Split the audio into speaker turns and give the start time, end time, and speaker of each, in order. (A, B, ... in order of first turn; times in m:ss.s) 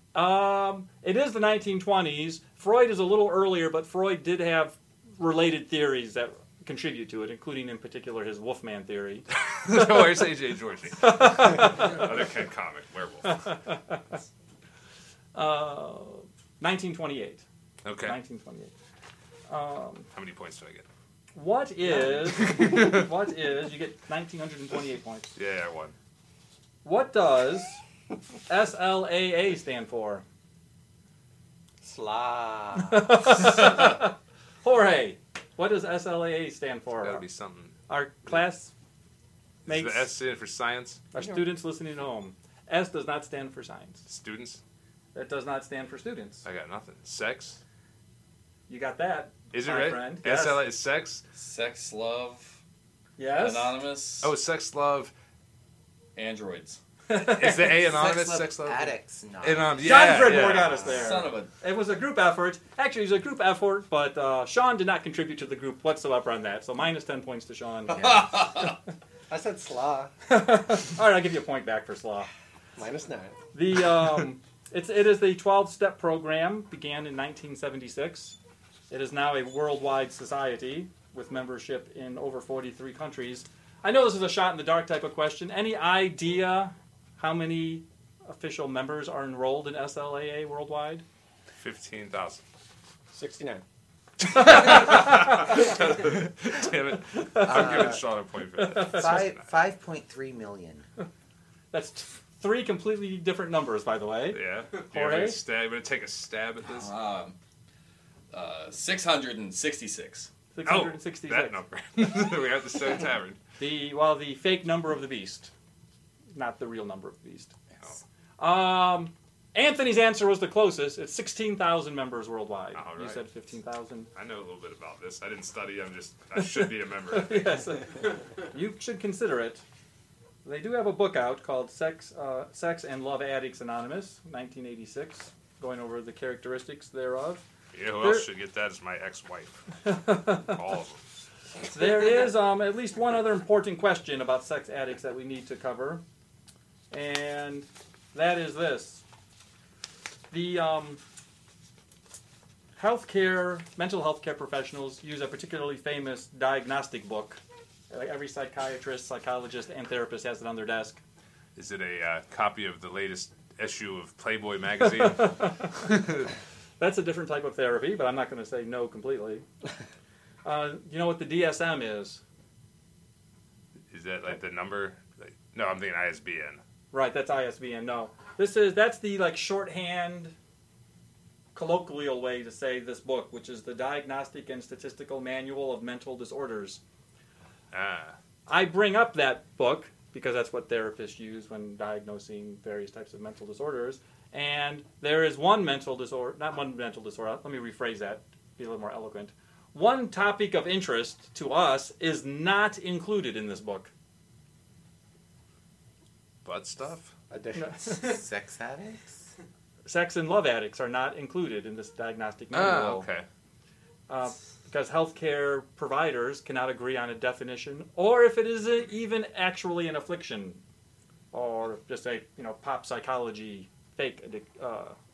0:00.1-0:09.2 A
0:09.4-0:13.4 B
0:11.0-0:12.1 A
0:13.2-0:14.0 A
0:15.3-0:17.4 A
0:17.8-0:18.2 B
0:18.0-0:18.7 A
0:19.5-0:20.1 A
0:20.1-0:20.8 B
0:21.3-0:25.4 A
0:22.4-0:23.0 B
0:25.4-0:25.9 B
0:26.8-0:27.8 A
0:28.5-0:30.2 A
0:31.8-0:33.2 C
0:32.8-0:37.2 A
0:37.0-0:37.8 B
0:37.9-0:38.7 A
0:39.6-0:41.0 B
0:39.7-0:40.1 A
0:41.1-0:44.0 A
0:41.2-0:41.4 C
0:44.1-0:44.6 B
0:45.1-0:46.4 A
0:46.4-0:47.6 B
0:48.7-0:50.6 A
0:49.5-0:51.2 B
0:51.3-0:52.6 D
0:53.2-0:53.8 A
0:53.4-0:54.3 D
0:54.2-0:55.1 B
0:56.2-0:56.8 D
0:57.1-0:57.8 A
0:57.1-1:00.8 B
0:57.7-1:00.0 E
0:59.8-1:08.2 A
1:00.7-1:01.5 D
1:07.9-1:08.4 E
1:08.0-1:08.6 D
1:09.3-1:10.1 C
1:10.3-1:12.3 A
1:12.8-1:13.4 C
1:13.5-1:18.4 A
1:18.9-1:31.0 A
1:31.6-1:32.4 B
1:33.1-1:33.6 C
1:34.2-1:39.5 B
1:37.3-1:37.8 A
1:37.4-1:38.0 E
1:38.6-1:39.2 A
1:38.7-1:40.8 E
1:41.7-1:45.4 A
1:44.3-1:46.9 B
1:46.7-1:47.4 D
1:48.3-1:50.3 D
1:50.5-1:51.6 A
1:50.6-1:53.4 B
1:53.6-1:55.5 A
1:56.3-1:57.5 A
1:58.4-2:04.1 A
2:02.7-2:03.2 B
2:04.1-2:07.7 B
2:06.4-2:09.6 A
2:10.4-2:17.4 A
2:17.7-2:21.0 B
2:18.0-2:18.3 A
2:19.8-2:20.6 A
2:21.6-2:26.0 A
2:26.9-2:29.0 A
2:30.3-2:31.0 A
2:32.8-2:41.0 A
2:41.6-2:46.3 B
2:45.1-2:45.6 A
2:46.8-2:49.4 A
2:50.4-2:52.2 A
2:53.9-2:56.6 B
2:56.9-3:00.3 A
3:01.5-3:06.8 A
3:07.7-3:08.2 B
3:08.5-3:23.9 A
3:26.4-3:27.1 B
3:27.3-3:27.7 C
3:27.5-3:28.2 A
3:27.9-3:29.1 E
3:29.8-3:33.0 A
3:32.5-3:33.2 B
3:34.1-3:40.6 A
3:41.3-3:45.0 A